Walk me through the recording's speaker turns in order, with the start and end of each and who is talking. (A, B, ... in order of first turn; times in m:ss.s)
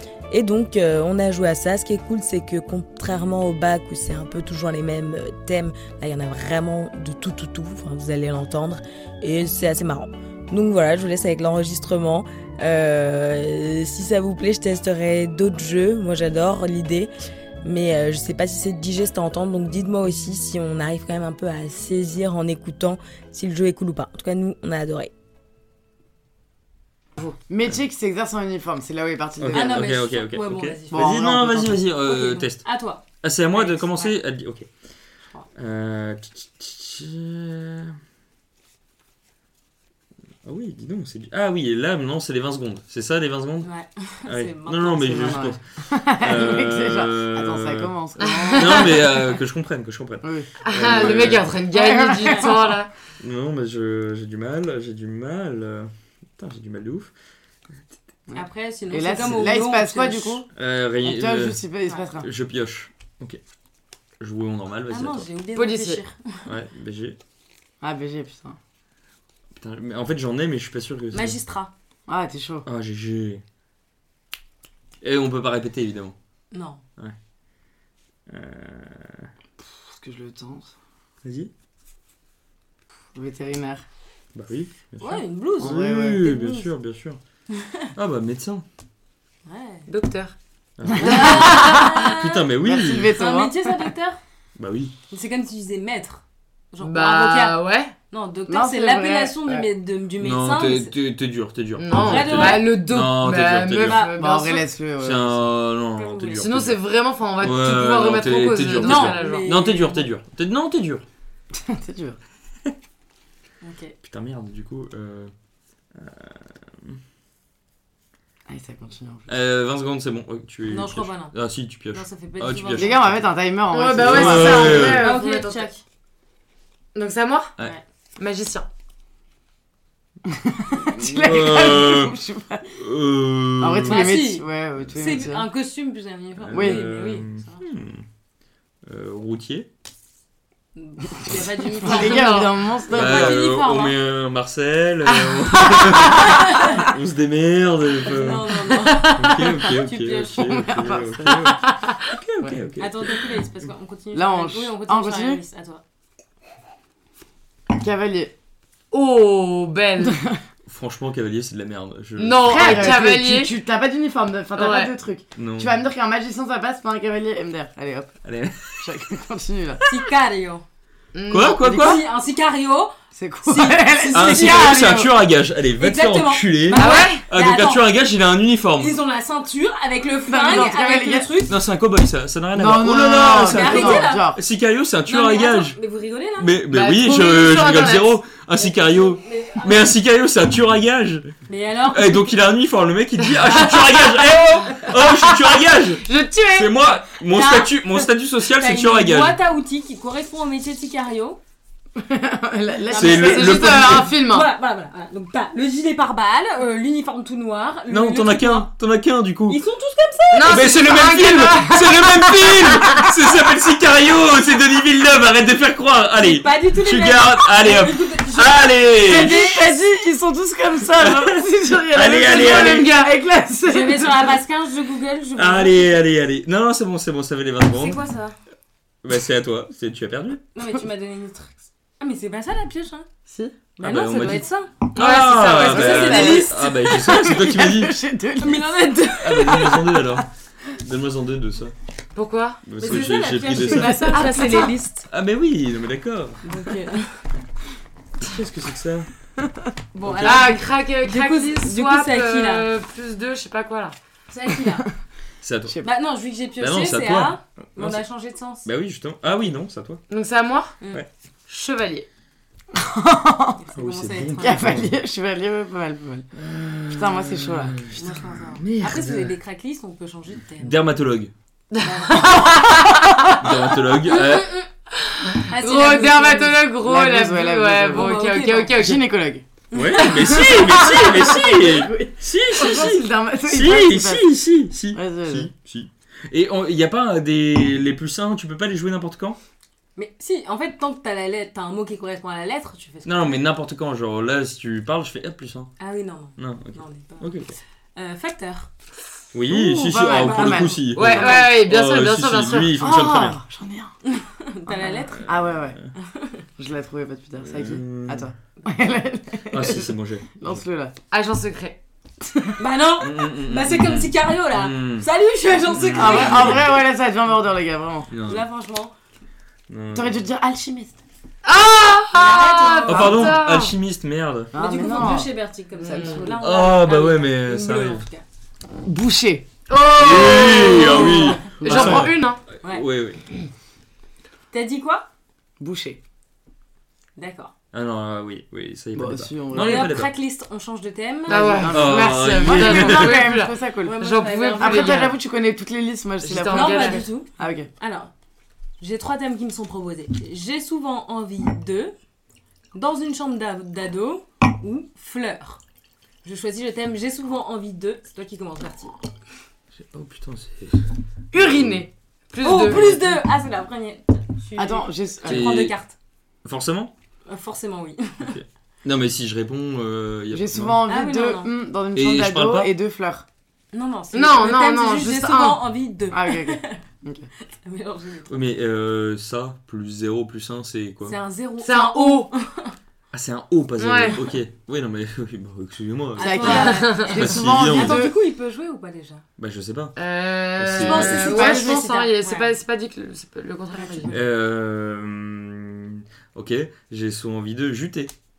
0:00.3-0:17.1 A
0:17.6-0:25.1 A
0:27.2-0:29.9 B
0:29.4-0:34.7 C
0:29.5-0:31.2 D
0:30.9-0:31.9 B
0:32.0-0:34.1 D
0:35.6-0:38.0 C
0:40.4-0:43.7 C
0:43.6-0:45.4 D
0:44.3-0:47.9 C
0:45.1-0:49.2 B
0:48.2-0:49.0 E
0:48.5-0:51.6 C
0:50.2-0:52.8 B
0:50.6-0:52.9 E
0:52.2-0:52.6 D
0:53.2-0:57.1 C
0:58.3-1:00.5 B
0:58.4-1:00.4 D
1:00.6-1:03.4 C
1:01.0-1:02.3 B
1:04.2-1:05.3 C
1:04.9-1:06.2 D
1:05.5-1:06.0 E
1:06.5-1:07.2 C
1:07.8-1:08.6 B
1:09.6-1:11.4 C
1:11.1-1:11.7 D
1:12.1-1:12.7 B
1:12.7-1:13.4 C
1:15.0-1:16.2 C
1:16.5-1:16.8 D
1:18.3-1:19.3 C
1:19.9-1:20.7 B
1:21.2-1:21.5 C
1:23.2-1:23.8 B
1:24.3-1:27.2 C
1:25.0-1:26.7 D
1:25.6-1:26.3 B
1:28.0-1:28.6 C
1:29.5-1:29.9 D
1:29.9-1:30.4 E
1:30.8-1:33.1 C
1:31.0-1:32.5 D
1:31.0-1:31.9 B
1:31.2-1:32.0 E
1:32.6-1:33.9 B
1:33.1-1:34.2 D
1:34.6-1:34.9 C
1:35.1-1:37.6 D
1:36.8-1:37.9 E
1:38.1-1:41.0 D
1:38.5-1:39.7 B
1:40.2-1:44.0 C
1:41.8-1:44.6 E
1:41.9-1:42.9 D
1:43.6-1:45.4 B
1:43.7-1:44.6 D
1:45.0-1:46.8 C
1:46.0-1:46.5 D
1:46.4-1:49.6 E
1:47.4-1:51.0 C
1:48.7-1:50.1 D
1:51.5-1:52.2 B
1:53.6-1:54.0 D
1:54.0-1:55.3 C
1:55.9-1:57.0 C
1:58.5-1:59.4 B
1:59.3-2:03.2 C
2:00.7-2:01.4 D
2:01.9-2:03.1 D
2:02.8-2:05.2 B
2:03.7-2:05.7 E
2:04.0-2:05.1 C
2:04.8-2:05.8 D
2:06.9-2:07.5 E
2:08.2-2:08.7 E
2:10.2-2:12.7 B
2:10.8-2:12.1 C
2:12.7-2:14.0 C
2:13.6-2:15.5 B
2:13.9-2:17.6 D
2:16.4-2:18.0 C
2:16.5-2:16.9 B
2:18.9-2:19.7 C
2:20.8-2:24.0 D
2:21.7-2:23.4 B
2:21.8-2:22.5 E
2:22.9-2:33.0 C
2:26.4-2:26.8 D
2:28.0-2:30.7 D
2:28.8-2:29.3 E
2:30.4-2:31.9 B
2:32.8-2:35.8 D
2:34.1-2:35.4 B
2:37.7-2:38.3 B
2:38.9-2:40.2 E
2:40.0-2:40.4 B
2:40.7-2:43.0 C
2:42.2-2:43.5 E
2:42.4-2:48.2 B
2:44.6-2:44.9 E
2:45.4-2:45.8 C
2:48.2-2:48.9 C
2:48.8-2:49.8 B
2:49.9-2:50.6 D
2:51.1-2:51.7 E
2:51.3-2:52.0 C
2:51.6-2:55.1 D
2:53.1-2:55.2 B
2:54.1-2:59.0 C
2:55.8-2:57.9 D
2:56.7-2:57.2 E
2:58.8-3:01.5 D
3:00.3-3:01.3 B
3:01.5-3:05.8 C
3:02.6-3:04.4 B
3:03.3-3:04.4 D
3:05.1-3:06.6 D
3:06.4-3:19.4 C
3:06.7-3:08.2 E
3:08.5-3:10.0 D
3:11.5-3:12.2 D
3:13.6-3:14.3 E
3:15.2-3:16.8 E
3:17.3-3:21.4 D
3:22.0-3:24.4 B
3:22.8-3:28.7 D
3:22.9-3:24.2 C
3:27.9-3:29.6 C
3:29.5-3:30.7 D
3:30.3-3:39.5 C
3:30.3-3:32.9 E
3:36.2-3:39.8 D
3:39.0-3:44.4 B
3:41.0-3:42.9 C
3:43.6-3:46.0 D
3:45.4-3:48.0 C
3:47.7-3:48.4 D
3:49.0-3:50.4 C
3:50.6-3:53.1 D
3:53.3-3:53.6 B
3:53.8-3:54.9 D
3:53.8-3:58.0 C
3:55.0-3:56.5 E
3:55.4-3:58.7 B
3:55.5-3:57.0 D
3:58.4-4:00.0 D
3:59.2-4:01.8 C
4:02.1-4:02.6 E
4:02.6-4:04.1 C
4:02.8-4:05.0 D
4:03.5-4:04.7 B
4:03.9-4:04.8 E
4:05.1-4:06.4 C
4:06.4-4:07.2 D
4:08.2-4:09.1 C
4:09.9-4:12.7 D
4:10.0-4:10.5 C
4:10.2-4:14.0 E
4:14.3-4:14.9 D
4:15.4-4:15.8 C
4:15.8-4:18.7 D
4:16.6-4:18.0 C
4:18.6-4:20.0 C
4:20.1-4:20.8 E
4:21.5-4:22.1 E
4:22.7-4:23.6 B
4:23.6-4:24.8 D
4:23.7-4:24.9 C
4:24.4-4:26.3 B
4:26.4-4:29.3 C
4:26.9-4:27.8 B
4:28.0-4:30.8 D
4:30.6-4:31.3 C
4:31.8-4:32.5 D
4:32.1-4:33.5 E
4:33.4-4:34.5 C
4:34.0-4:34.7 D
4:35.5-4:36.7 D
4:35.5-4:39.1 E
4:36.7-4:38.1 B
4:37.9-4:38.8 D
4:38.8-4:39.4 B
4:39.7-4:40.4 D
4:39.7-4:49.4 C
4:40.3-4:44.3 B
4:40.3-4:40.8 E
4:44.9-4:45.5 B
4:50.0-4:53.4 D
4:53.0-4:55.7 C
4:55.8-4:57.3 D
4:56.4-4:57.6 C
4:58.0-4:58.7 D
4:59.3-5:03.4 C
4:59.5-5:01.4 B
5:00.2-5:01.5 D
5:00.9-5:02.8 E
5:02.8-5:03.9 B
5:04.1-5:05.3 D
5:05.1-5:05.9 C
5:05.3-5:05.8 B
5:06.0-5:06.4 D
5:06.6-5:11.0 B
5:07.4-5:08.3 C
5:09.5-5:10.4 C
5:11.1-5:11.8 E
5:12.2-5:12.5 B
5:12.6-5:16.6 D
5:13.0-5:15.1 C
5:15.7-5:16.6 C
5:15.8-5:18.1 B
5:18.1-5:18.5 C
5:18.2-5:18.9 D
5:19.7-5:20.3 C
5:20.0-5:21.0 B
5:21.4-5:23.8 E
5:22.1-5:23.4 D
5:22.9-5:24.5 C
5:24.5-5:26.4 B
5:24.6-5:28.2 D
5:26.2-5:28.1 C
5:28.8-5:29.5 B
5:29.7-5:32.4 E
5:30.0-5:33.2 C
5:31.3-5:32.2 B
5:34.5-5:35.1 D
5:35.6-5:36.0 B
5:37.2-5:37.5 D
5:37.7-5:40.1 C
5:39.0-5:39.9 B
5:39.5-5:41.7 D
5:41.3-5:47.7 B
5:41.3-5:45.2 E
5:41.7-5:43.2 C
5:43.2-5:45.2 D
5:46.2-5:47.3 D
5:46.2-5:47.1 E
5:47.8-5:48.1 D
5:48.8-5:51.9 D
5:52.7-5:55.6 D
5:56.2-5:59.0 D
5:59.7-6:00.8 C
6:01.4-6:03.2 E
6:01.4-6:01.9 B
6:01.4-6:01.8 C
6:02.4-6:05.9 D
6:04.6-6:05.5 B
6:05.2-6:05.8 C
6:06.4-6:06.9 C
6:07.3-6:08.4 D
6:08.2-6:10.8 C
6:10.3-6:13.3 B
6:10.9-6:11.5 D
6:12.0-6:12.7 C
6:13.7-6:16.8 D
6:14.1-6:15.6 E
6:16.1-6:17.3 B
6:17.6-6:18.3 D
6:18.3-6:21.2 C
6:21.1-6:22.7 D
6:21.6-6:22.3 E
6:23.1-6:28.0 C
6:23.8-6:24.2 E
6:26.2-6:29.2 D
6:26.2-6:28.1 B
6:26.4-6:27.2 E
6:29.4-6:30.0 C
6:30.0-6:34.1 E
6:30.6-6:31.3 C
6:30.7-6:32.5 D
6:30.8-6:31.9 B
6:33.7-6:34.2 D
6:34.1-6:38.1 C